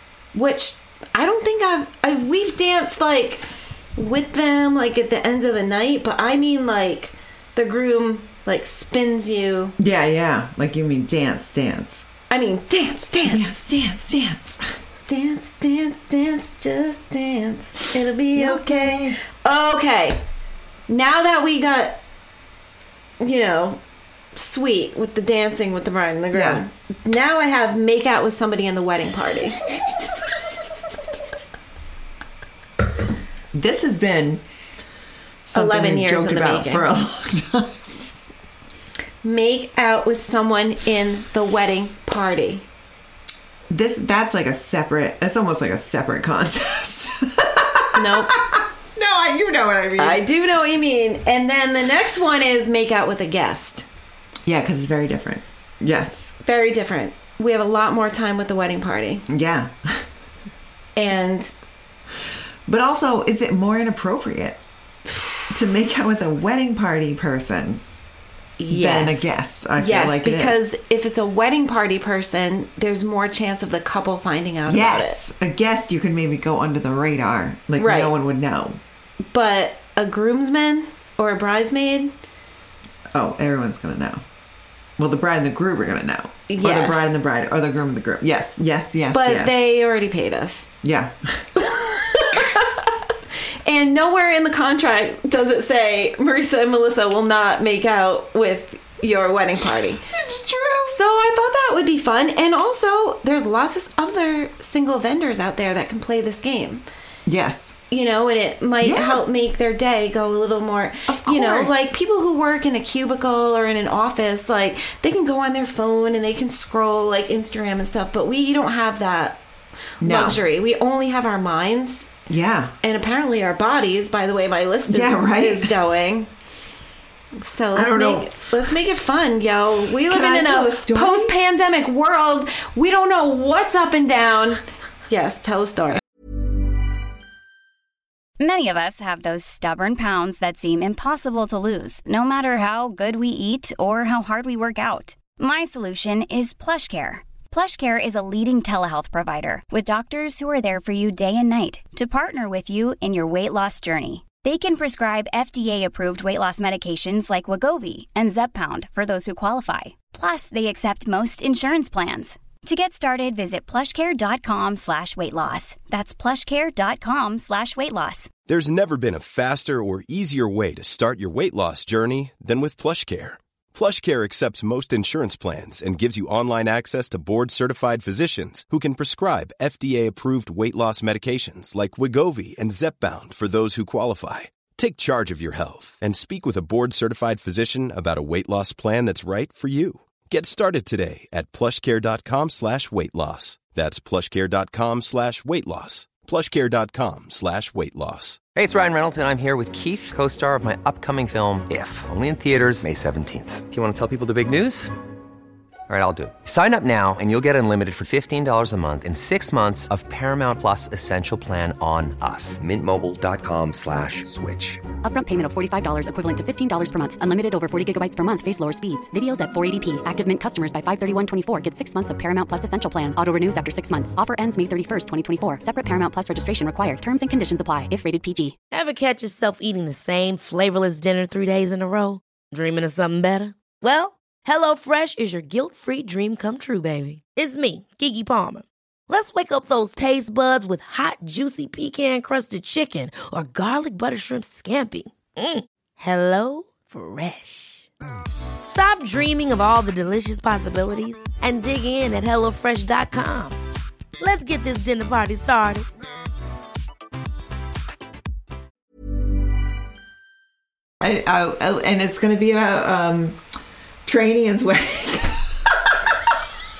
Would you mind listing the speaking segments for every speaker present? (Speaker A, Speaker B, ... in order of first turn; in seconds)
Speaker A: 0.3-9.7, 12.3-13.6, 15.1-20.2, 20.9-22.0, 23.2-23.8, 24.4-29.6, 35.5-36.9, 39.2-42.6, 47.9-48.4, 50.0-53.9, 56.4-59.2, 61.0-61.5, 65.1-65.6, 68.6-75.2, 77.8-78.1, 79.3-82.1, 86.5-87.1, 89.1-90.7, 91.9-93.0, 93.6-100.0, 100.9-106.8, 107.9-119.4, 120.0-122.2, 122.8-126.3, 127.4-136.0
Speaker B: 9.8-12.1, 13.2-14.8, 18.3-19.2, 26.3-26.6, 33.5-34.4, 35.5-38.1, 43.7-50.2, 54.5-56.3, 59.3-60.1, 62.6-64.6, 65.5-67.8, 68.7-70.7, 74.7-78.8, 83.1-84.2, 85.0-89.7, 90.8-91.8, 100.1-101.0, 107.3-107.8, 108.8-109.2, 111.1-111.9, 120.0-120.4, 122.3-122.7, 124.9-125.7, 127.7-128.6, 130.0-131.3, 261.0-263.4, 264.1-266.3
Speaker C: 138.4-168.3
Speaker D: 168.4-198.4
Speaker E: 198.6-204.9, 205.9-214.8
Speaker F: 215.0-228.6
Speaker G: 228.7-247.9, 248.6-253.6, 254.2-255.9